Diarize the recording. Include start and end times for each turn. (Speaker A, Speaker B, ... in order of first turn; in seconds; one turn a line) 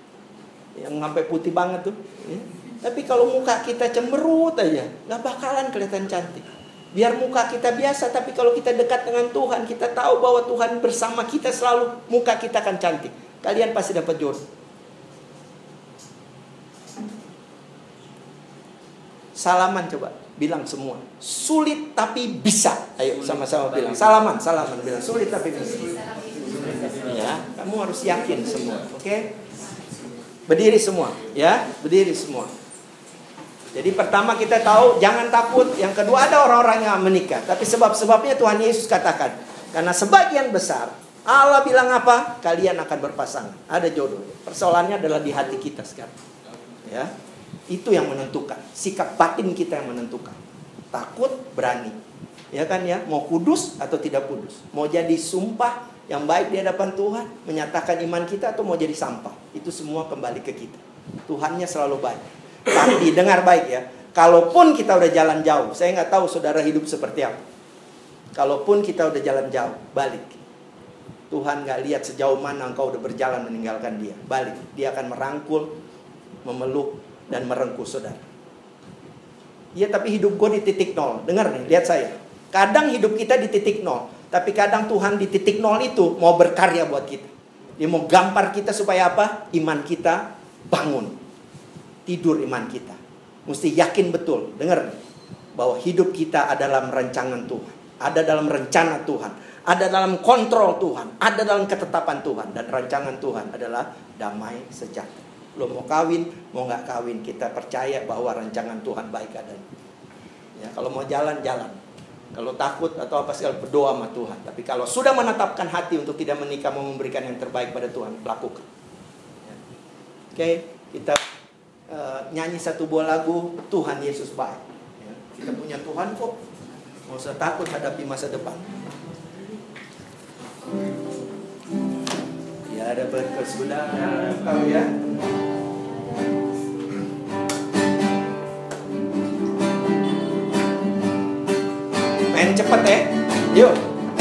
Speaker A: 0.8-14.4
Speaker A: 19.4-25.9
Speaker A: 27.0-29.3
Speaker A: 30.5-32.5
Speaker A: 33.7-46.2
Speaker A: 46.7-47.1
Speaker A: 47.7-50.4
Speaker A: 50.9-52.0
Speaker A: 52.5-67.4
Speaker A: 68.3-70.4
Speaker A: 71.3-75.8
Speaker A: 76.5-78.2
Speaker A: 79.8-91.2
Speaker A: 92.1-95.0
Speaker A: 95.6-109.7
Speaker A: 110.6-111.8
Speaker A: 112.3-118.7
Speaker A: 120.3-121.2
Speaker A: 121.9-126.4
Speaker A: 127.1-128.7
Speaker A: 132.7-135.1
Speaker A: 142.3-143.8